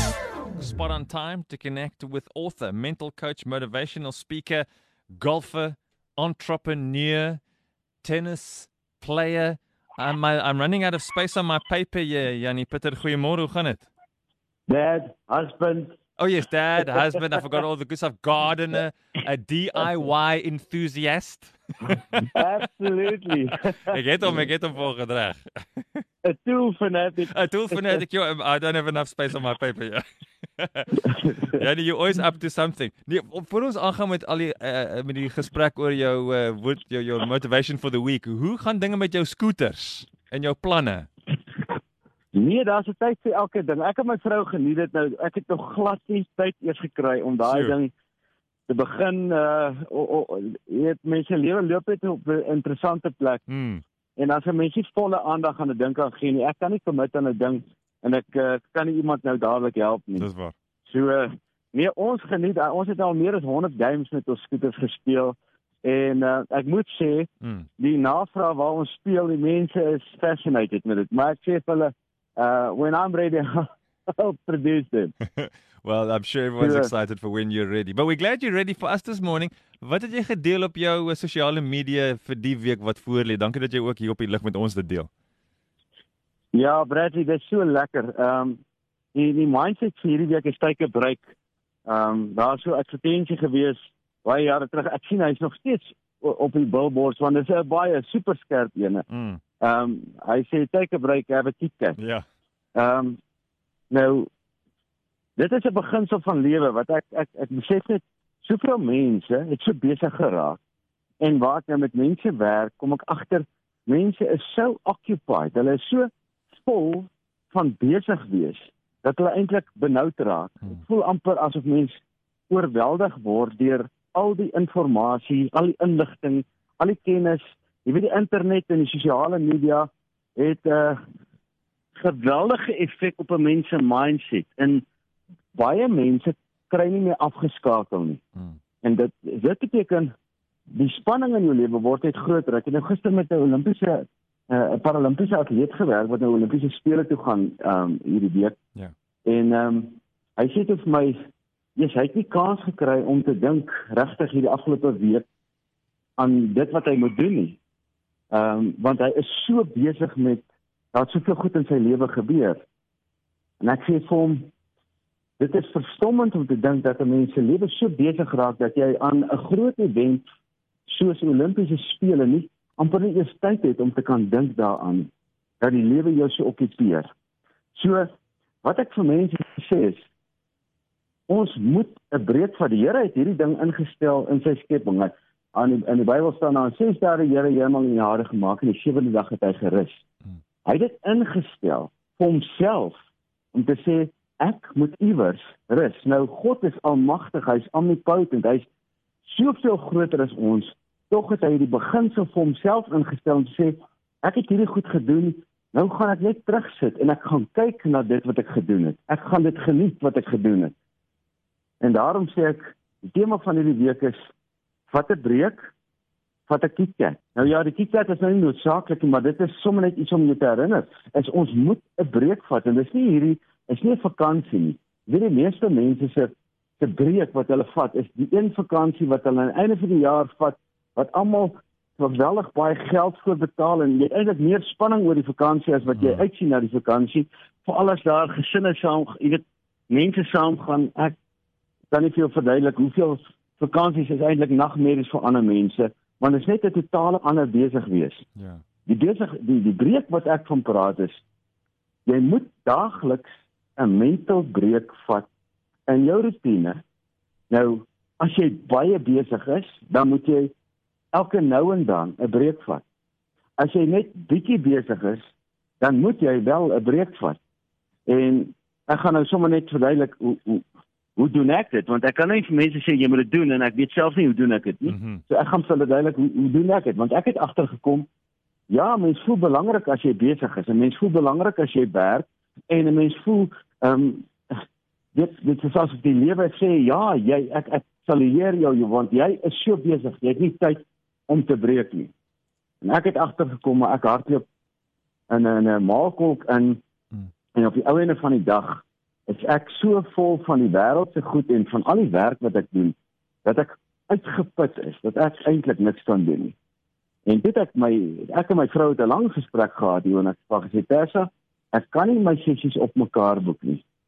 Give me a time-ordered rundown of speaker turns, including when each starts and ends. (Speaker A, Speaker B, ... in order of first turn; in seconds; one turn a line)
Speaker A: 0.6-7.4
Speaker A: 8.0-13.9
Speaker B: 14.7-16.0
Speaker A: 16.2-22.4
Speaker B: 22.3-24.4
Speaker A: 23.9-26.0
Speaker B: 26.2-28.0
Speaker A: 27.3-30.0
Speaker A: 30.6-41.1
Speaker B: 42.3-47.9
Speaker A: 47.4-47.7
Speaker B: 48.7-53.4
Speaker A: 53.5-53.8
Speaker B: 54.2-60.3
Speaker A: 60.2-60.5
Speaker B: 60.9-75.1
Speaker A: 75.4-85.1
Speaker B: 76.6-76.9
Speaker B: 86.5-88.6
Speaker B: 89.1-91.3
Speaker B: 91.9-99.0
Speaker A: 99.1-99.4
Speaker B: 99.6-102.0
Speaker A: 102.0-102.2
Speaker B: 102.8-103.2
Speaker B: 103.9-104.3
Speaker B: 105.4-110.6
Speaker B: 111.2-131.0
Speaker B: 131.9-134.8
Speaker B: 135.5-138.2
Speaker B: 138.8-140.1
Speaker B: 140.7-148.6
Speaker B: 149.2-155.3
Speaker B: 156.2-157.6
Speaker B: 158.3-162.7
Speaker B: 163.6-164.5
Speaker B: 165.4-170.3
Speaker B: 170.9-175.1
Speaker B: 175.6-177.1
Speaker B: 177.8-178.1
Speaker B: 178.6-180.1
Speaker B: 181.3-190.1
Speaker B: 190.7-193.0
Speaker B: 193.5-198.7
Speaker B: 199.2-210.7
Speaker B: 211.8-214.3
Speaker B: 214.9-215.7
Speaker B: 216.5-241.2
Speaker B: 241.9-248.3
Speaker A: 248.4-248.6
Speaker B: 248.9-251.2
Speaker B: 252.1-255.3
Speaker B: 255.9-256.8
Speaker B: 257.5-260.5
Speaker B: 261.1-262.8
Speaker B: 263.6-267.4
Speaker B: 268.1-270.6
Speaker B: 271.2-278.1
Speaker A: 274.9-275.2
Speaker B: 278.7-284.6
Speaker B: 285.1-292.1
Speaker B: 292.8-294.5
Speaker B: 295.3-296.8
Speaker B: 297.5-306.6
Speaker B: 307.3-313.8